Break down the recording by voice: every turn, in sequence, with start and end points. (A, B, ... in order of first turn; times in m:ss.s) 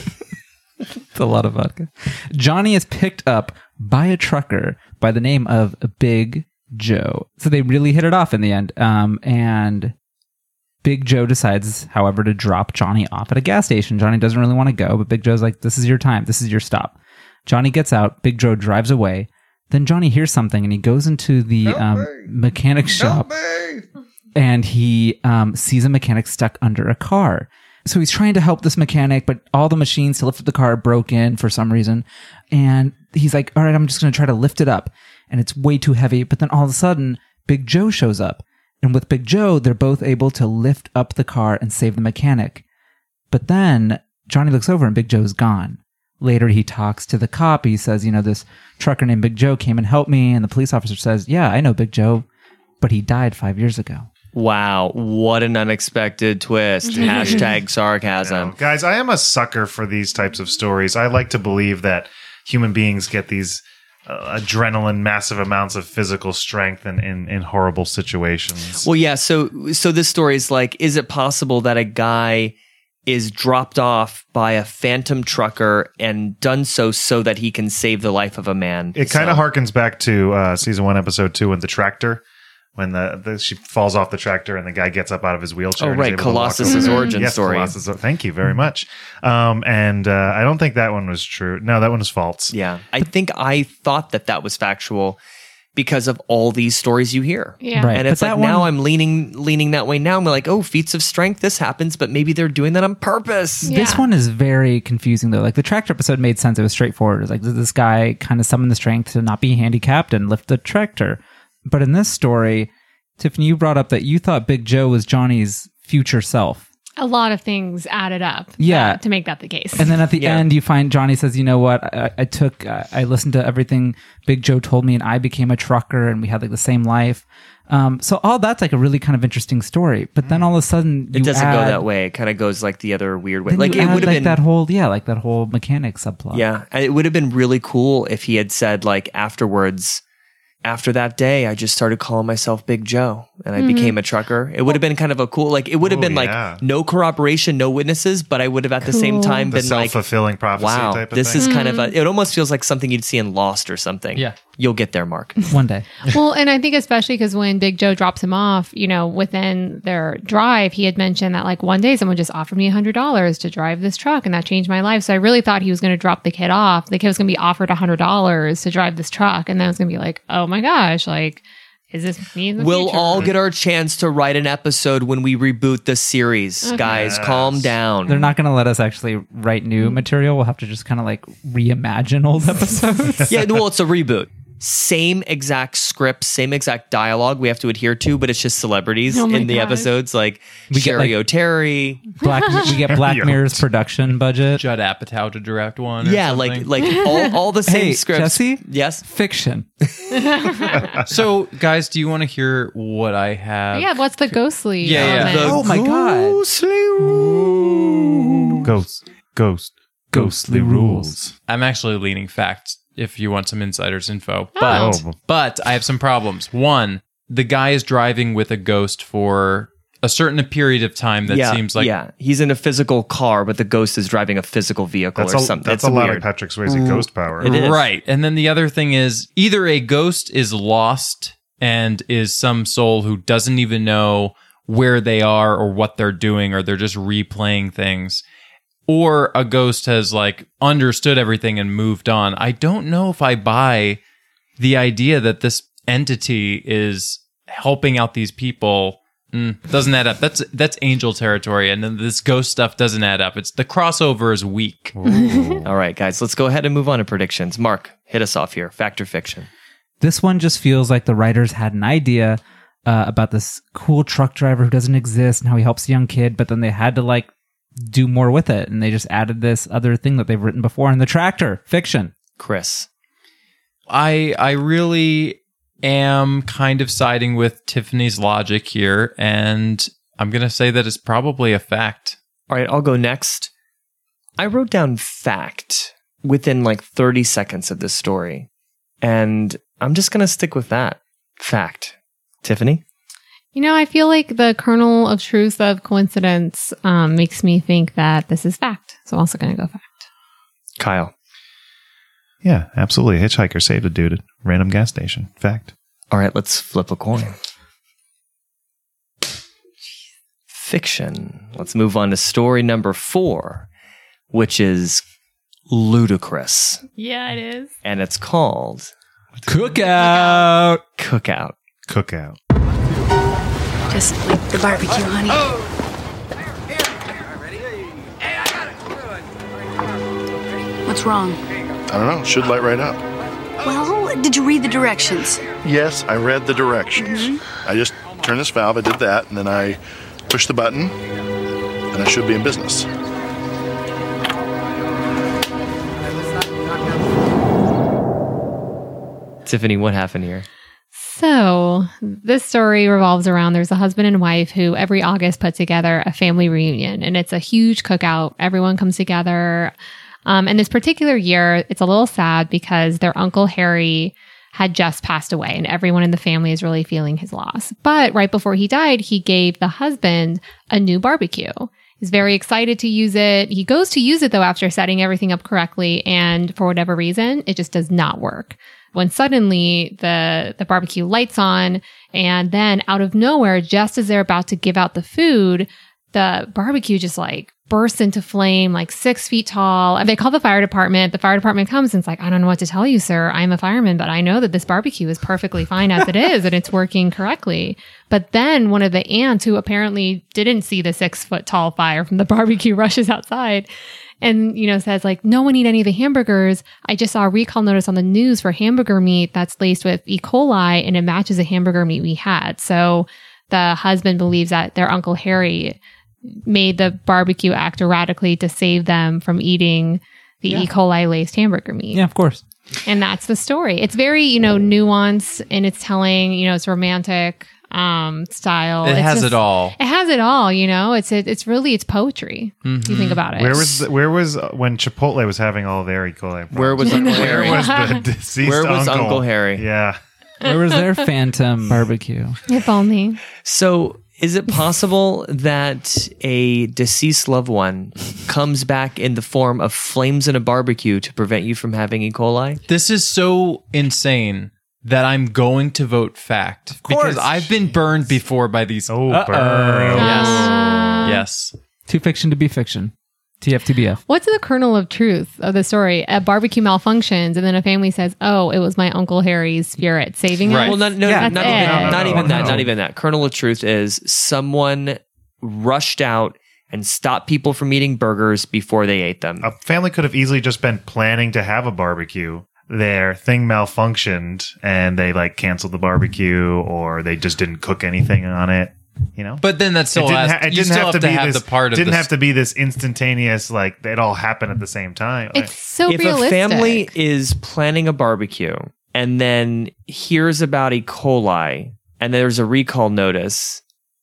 0:01.1-0:09.9 A
0:10.8-0:23.4 A
0:24.4-0:42.6 A
0:43.3-0:52.2 A
0:52.8-0:54.1 A
0:54.3-0:58.5 B
0:56.8-0:57.4 C
0:56.9-0:57.6 D
0:58.2-1:08.9 D
1:08.8-1:12.5 B
1:13.1-1:19.4 B
1:19.0-1:22.2 D
1:22.8-1:32.6 D
1:25.8-1:27.8 B
1:26.6-1:27.2 C
1:32.5-1:35.2 B
1:35.8-1:43.7 B
1:37.6-1:38.0 C
1:37.8-1:38.7 A
1:43.6-1:44.1 C
1:43.6-1:56.6 A
1:57.0-2:00.0 C
1:58.6-1:59.0 A
1:59.8-2:11.8 A
2:00.2-2:00.5 B
2:10.2-2:10.5 D
2:11.1-2:14.4 B
2:13.5-2:16.4 A
2:13.7-2:14.1 C
2:16.3-2:20.0 B
2:20.6-2:30.0 B
2:23.6-2:24.0 C
2:25.8-2:26.6 D
2:28.8-2:29.5 C
2:29.5-2:31.5 D
2:30.6-2:35.4 B
2:31.4-2:31.9 C
2:35.5-2:35.9 A
2:36.0-2:53.3 C
2:52.6-2:58.3 B
2:56.6-2:56.9 C
2:56.8-2:57.8 D
2:58.1-3:03.3 A
3:03.3-3:12.2 B
3:09.1-3:09.9 C
3:10.7-3:11.2 A
3:12.2-3:14.6 A
3:12.5-3:13.7 D
3:14.6-3:16.7 E
3:16.0-3:19.0 B
3:17.7-3:19.7 A
3:20.1-3:20.8 C
3:20.7-3:21.1 D
3:21.1-3:25.6 E
3:23.7-3:25.6 C
3:25.0-3:27.8 B
3:25.0-3:26.4 A
3:27.0-3:28.7 A
3:28.6-3:31.3 D
3:30.1-3:31.3 A
3:31.5-3:41.9 E
3:34.6-3:35.0 C
3:34.7-3:35.2 D
3:41.3-3:47.9 B
3:45.2-3:47.5 D
3:47.4-3:58.2 E
3:58.9-4:04.0 E
4:04.6-4:15.0 E
4:15.0-4:15.7 D
4:15.1-4:15.6 C
4:15.6-4:19.5 B
4:20.0-4:27.3 A
4:27.8-4:32.1 A
4:32.4-4:32.9 B
4:33.9-4:42.2 E
4:42.5-4:43.5 B
4:44.4-4:48.5 B
4:49.0-4:52.8 B
4:53.6-5:00.0 C
5:00.8-5:01.1 B
5:02.4-5:05.7 D
5:06.1-5:07.4 B
5:10.5-5:13.7 B
5:14.3-5:15.0 B
5:15.7-5:16.8 B
5:17.0-5:17.7 C
5:17.8-5:18.9 B
5:19.5-5:20.8 A
5:19.8-5:20.5 C
5:21.0-5:21.6 B
5:21.9-5:22.4 D
5:23.9-5:25.5 F
5:30.9-5:31.4 F
5:32.0-5:32.9 G
5:33.6-5:35.4 F
5:35.7-5:36.9 G
5:37.0-5:37.4 F
5:37.7-5:39.7 G
5:40.3-5:40.8 G
5:42.0-5:42.8 G
5:49.5-5:50.5 B
5:51.0-5:59.7 C
6:00.3-6:43.7 C
6:44.2-7:02.0 C
7:01.9-7:02.4 A
7:02.9-7:13.8 C
7:08.8-7:09.8 E
7:12.6-7:13.2 E
7:13.3-7:20.0 D
7:16.5-7:17.9 B
7:16.8-7:18.0 C
7:18.4-7:19.6 B
7:20.4-7:22.4 A
7:22.5-7:23.2 C
7:23.4-7:32.6 B
7:32.7-7:39.0 E
7:36.8-7:37.5 A
7:38.9-7:40.5 D
7:39.1-7:40.5 A
7:39.9-7:41.6 E
7:40.0-7:41.2 C
7:41.9-7:44.0 A
7:44.1-7:52.0 C
7:50.4-7:50.8 E
7:50.6-7:59.5 B
7:51.0-7:52.7 A
7:51.4-7:52.7 D
7:59.4-8:15.5 D
8:09.4-8:12.1 E
8:15.3-8:16.9 C
8:15.9-8:23.6 B